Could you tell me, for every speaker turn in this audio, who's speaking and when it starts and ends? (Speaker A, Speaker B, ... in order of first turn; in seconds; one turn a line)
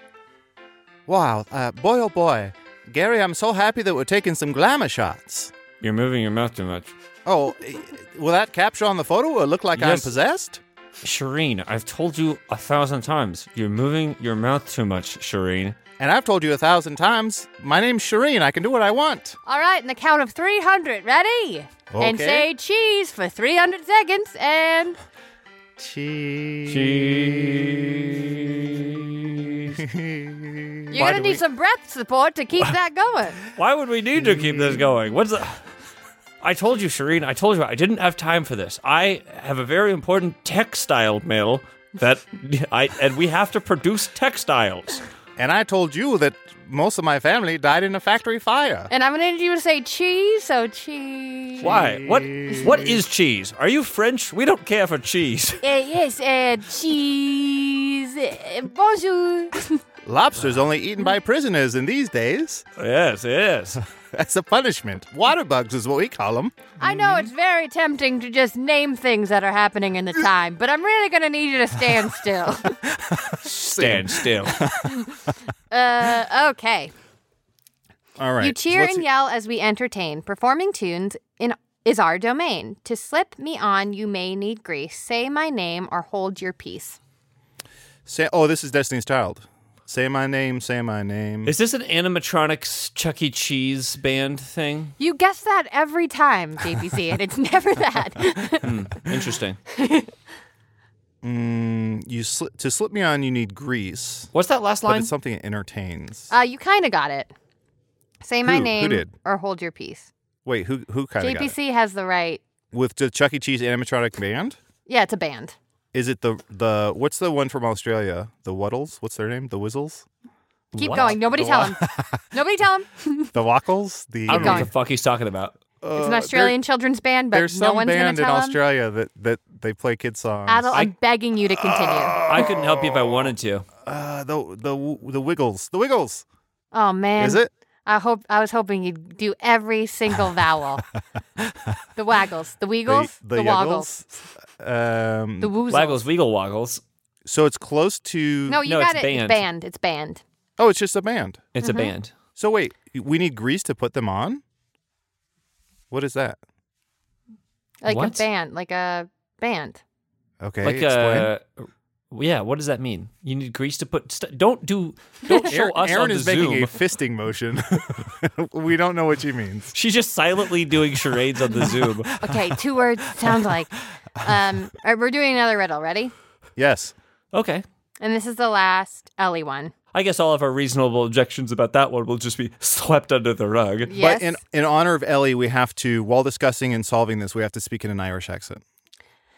Speaker A: 1.1-5.5
Speaker B: 5.8-6.9
Speaker A: 7.2-10.6
Speaker B: 9.8-10.1
Speaker B: 11.0-15.8
Speaker A: 16.0-19.4
Speaker C: 19.5-25.0
Speaker A: 21.9-22.5
Speaker A: 25.8-28.2
Speaker B: 26.7-29.8
Speaker A: 29.8-31.4
Speaker C: 30.9-33.4
Speaker B: 33.6-35.6
Speaker A: 34.2-34.8
Speaker B: 36.4-45.0
Speaker A: 45.4-48.9
Speaker C: 48.9-51.7
Speaker A: 51.6-53.0
Speaker B: 51.6-55.6
Speaker C: 55.6-59.8
Speaker A: 60.0-62.6
Speaker B: 62.8-63.8
Speaker A: 64.0-67.3
Speaker C: 66.8-72.8
Speaker A: 72.8-74.9
Speaker B: 73.4-74.7
Speaker C: 74.8-75.2
Speaker C: 75.7-76.9
Speaker A: 78.2-79.0
Speaker C: 78.4-87.0
Speaker A: 88.1-91.5
Speaker B: 91.5-94.9
Speaker C: 95.0-98.7
Speaker B: 98.6-99.6
Speaker C: 99.7-100.1
Speaker A: 101.2-104.3
Speaker B: 104.3-105.1
Speaker A: 104.9-106.3
Speaker C: 106.3-107.3
Speaker C: 108.2-110.1
Speaker A: 108.5-109.1
Speaker A: 110.5-111.5
Speaker C: 111.2-112.4
Speaker A: 112.7-114.6
Speaker C: 114.9-115.5
Speaker A: 115.9-120.1
Speaker A: 120.7-122.2
Speaker C: 120.8-123.3
Speaker B: 120.8-121.2
Speaker A: 123.3-124.7
Speaker B: 124.3-125.5
Speaker C: 124.3-124.7
Speaker A: 125.8-126.6
Speaker C: 126.0-128.6
Speaker A: 127.3-130.8
Speaker C: 130.5-132.3
Speaker A: 131.5-133.3
Speaker B: 132.2-133.7
Speaker A: 133.8-136.2
Speaker C: 136.7-140.8
Speaker A: 137.2-137.5
Speaker C: 142.0-143.9
Speaker A: 142.9-145.5
Speaker C: 145.4-146.0
Speaker B: 145.7-146.8
Speaker A: 147.2-148.6
Speaker C: 148.5-150.2
Speaker B: 148.6-149.4
Speaker A: 150.6-151.5
Speaker B: 151.6-152.1
Speaker C: 151.6-151.9
Speaker A: 152.4-154.4
Speaker A: 155.9-156.4
Speaker C: 157.8-159.8
Speaker B: 157.9-158.2
Speaker A: 160.4-161.3
Speaker B: 160.6-166.7
Speaker A: 165.4-169.8
Speaker B: 169.7-172.2
Speaker A: 171.4-172.6
Speaker C: 172.2-176.1
Speaker A: 173.2-173.5
Speaker A: 176.6-176.9
Speaker B: 177.3-177.7
Speaker C: 178.0-179.7
Speaker B: 179.9-183.9
Speaker C: 183.9-184.4
Speaker A: 183.9-188.6